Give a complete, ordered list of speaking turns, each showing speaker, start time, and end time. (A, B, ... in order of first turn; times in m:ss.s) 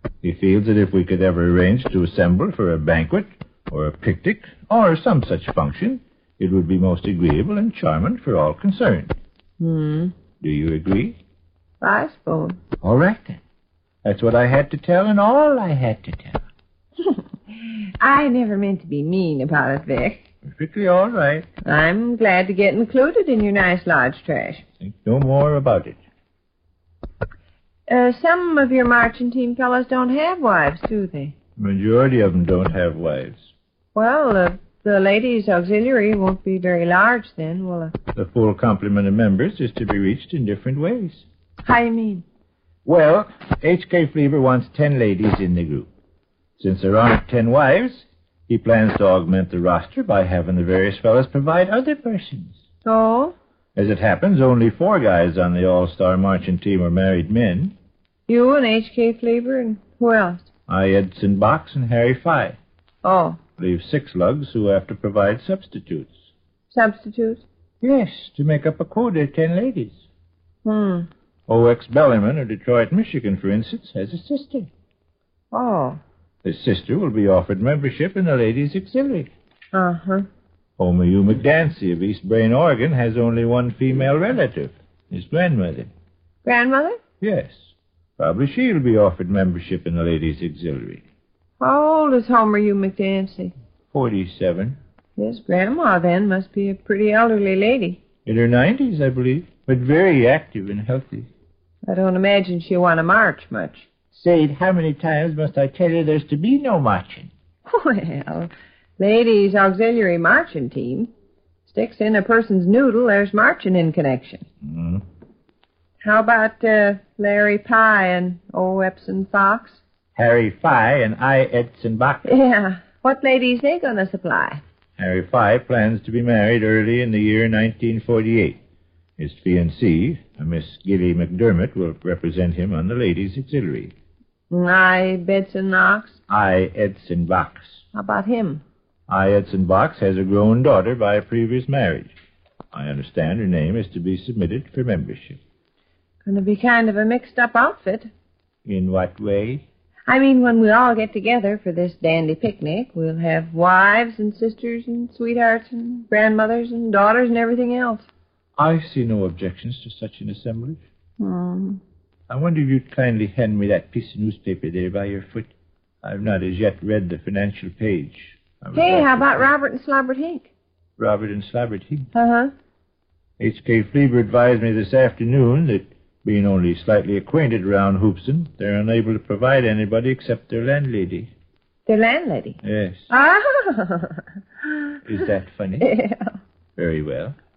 0:00.2-0:09.2 A
0:09.6-0:10.1 B
0:10.4-0:11.2 A
0:11.8-0:12.6 B
0:12.8-0:13.4 A
0:14.0-0:16.4 A
0:17.0-0:20.2 B
0:20.4-0:21.5 A
0:21.6-0:24.6 B
0:24.8-0:26.0 A
0:27.9-0:31.3 B
0:31.6-0:33.5 A
0:33.9-0:37.9 B
0:38.1-0:41.2 A
0:41.6-0:42.2 B
0:42.8-0:45.9 A
0:46.6-0:52.6 A
0:52.8-0:53.3 B
0:53.7-0:57.7 A
0:58.3-1:00.4 B
1:00.7-1:02.6 A
1:03.0-1:03.4 B
1:03.6-1:06.2 A
1:06.7-1:07.4 B
1:07.8-1:10.0 A
1:10.6-1:11.1 B
1:11.5-1:14.7 A
1:15.5-1:16.0 B
1:16.4-1:19.3 A
1:19.7-1:20.3 B
1:20.8-1:25.9 A
1:26.4-1:27.0 B
1:27.2-1:31.0 A
1:31.6-1:33.5 B
1:33.9-1:34.8 A
1:35.2-1:38.0 B
1:38.2-1:41.3 A
1:41.9-1:43.8 B
1:44.1-1:47.3 A
1:47.7-1:51.1 B
1:51.7-1:54.4 B
1:54.6-1:55.0 A
1:56.0-1:59.8 B
2:00.2-2:02.3 A
2:02.2-2:04.6 B
2:05.0-2:08.6 A
2:09.2-2:13.9 A
2:14.5-2:16.2 B
2:16.3-2:17.8 A
2:17.9-2:18.6 B
2:19.1-2:22.1 A
2:22.7-2:25.4 A
2:26.2-2:28.1 B
2:28.6-2:29.6 A
2:30.1-2:38.1 B
2:38.6-2:40.8 A
2:41.2-2:41.8 B
2:42.3-2:49.5 A
2:48.7-2:50.5 B
2:51.0-2:52.1 A
2:52.1-2:52.5 B
2:53.4-3:01.3 A
3:01.9-3:05.1 B
3:02.6-3:03.1 A
3:05.0-3:05.9 A
3:05.8-3:06.4 B
3:06.8-3:07.4 A